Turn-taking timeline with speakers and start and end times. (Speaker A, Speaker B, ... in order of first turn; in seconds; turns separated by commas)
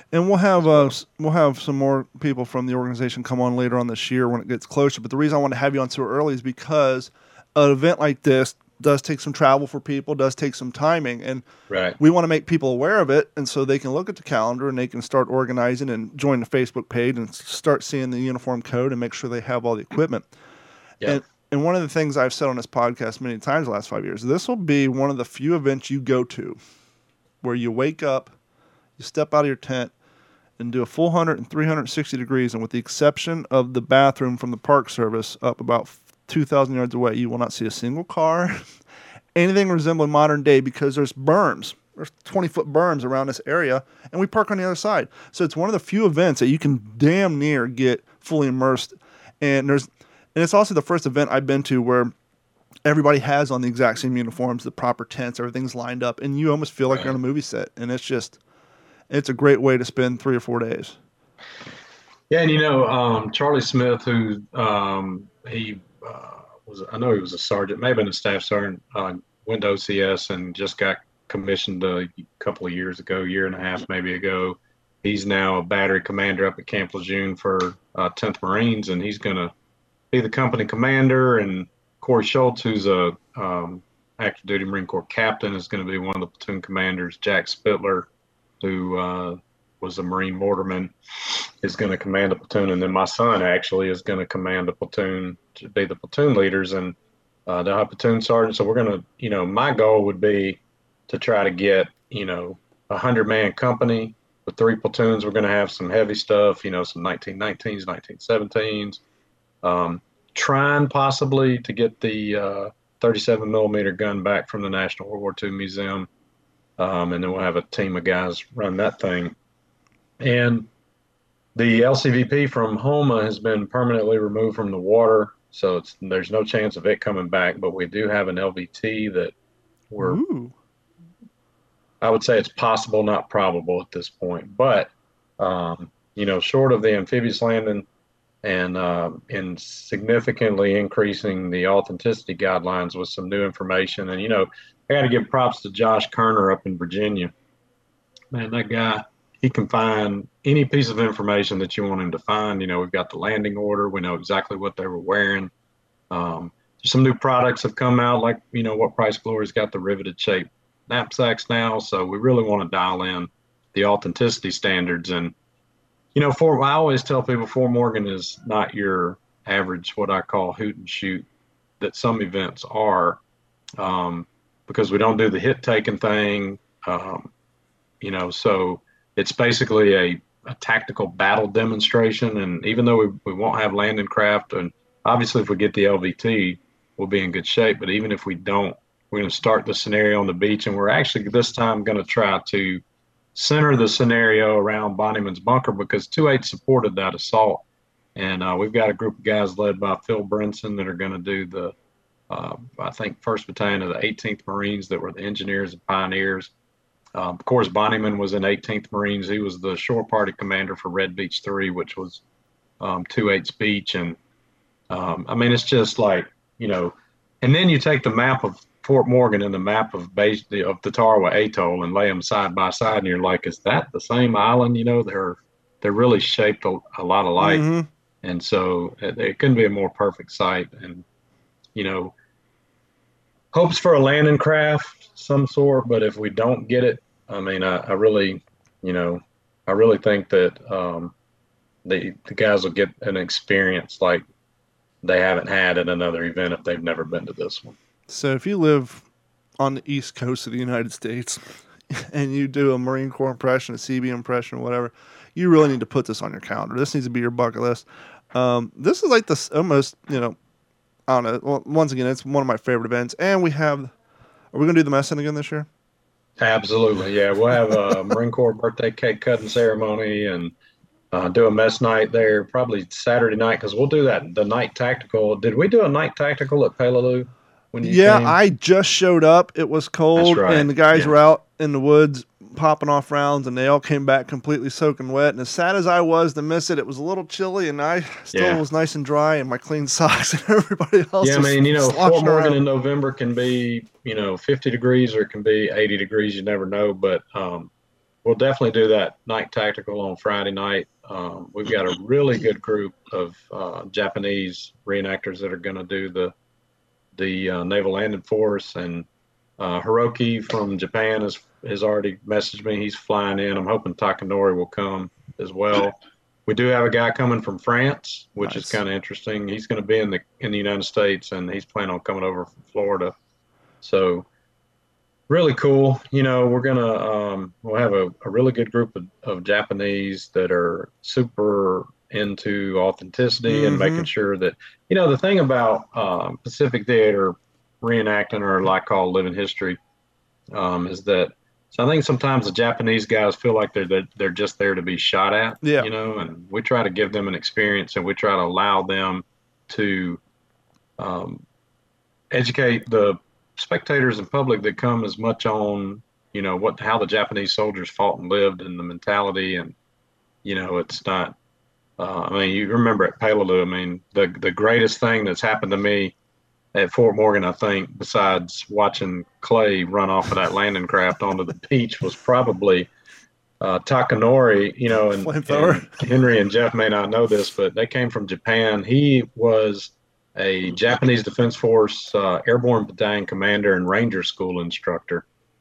Speaker A: 0.1-11.4, Speaker B: 0.6-0.9, Speaker B: 11.7-12.0, Speaker A: 12.0-20.3, Speaker A: 21.0-26.6, Speaker A: 27.4-28.3, Speaker A: 29.0-29.9, Speaker A: 30.6-38.6, Speaker A: 39.3-52.1, Speaker A: 52.8-58.4, Speaker A: 59.1-61.0, Speaker B: 62.3-79.5, Speaker B: 80.1-88.1, Speaker B: 88.6-97.0, Speaker B: 97.5-109.0, Speaker B: 109.6-116.1, Speaker B: 116.8-119.3, Speaker B: 120.2-120.7, Speaker B: 121.5-129.3, Speaker B: 129.9-130.2, Speaker A: 130.0-130.5, Speaker B: 132.0-137.8, Speaker B: 138.4-147.3, Speaker B: 148.3-155.5, Speaker B: 156.1-165.3, Speaker B: 166.1-171.2, Speaker B: 171.8-173.2, Speaker B: 173.8-177.3, Speaker B: 178.0-192.8, Speaker B: 193.3-197.6, Speaker B: 198.2-201.7, Speaker B: 202.3-206.5, Speaker B: 207.1-212.2, Speaker B: 212.8-214.2, Speaker B: 214.9-227.6, Speaker A: 227.4-227.9, Speaker B: 228.2-231.0, Speaker B: 231.8-232.1, Speaker B: 233.5-241.1, Speaker B: 241.8-244.2, Speaker B: 245.0-247.7, Speaker A: 248.1-249.0, Speaker A: 249.6-260.4, Speaker A: 261.1-263.9, Speaker A: 264.5-265.7, Speaker B: 266.4-270.5, Speaker B: 271.1-278.4, Speaker A: 277.8-292.6, Speaker B: 280.2-281.1, Speaker B: 288.3-288.6, Speaker B: 291.2-297.7, Speaker B: 298.2-306.3, Speaker B: 307.1-309.1, Speaker B: 309.6-323.1, Speaker A: 318.4-318.8, Speaker B: 323.8-324.3, Speaker B: 325.3-339.8, Speaker A: 333.5-334.1, Speaker B: 340.5-350.2, Speaker A: 345.6-345.9, Speaker B: 351.0-351.4, Speaker B: 352.3-359.7, Speaker B: 360.4-361.3, Speaker B: 362.0-366.1, Speaker B: 366.7-372.9, Speaker B: 373.6-385.2, Speaker A: 375.2-376.0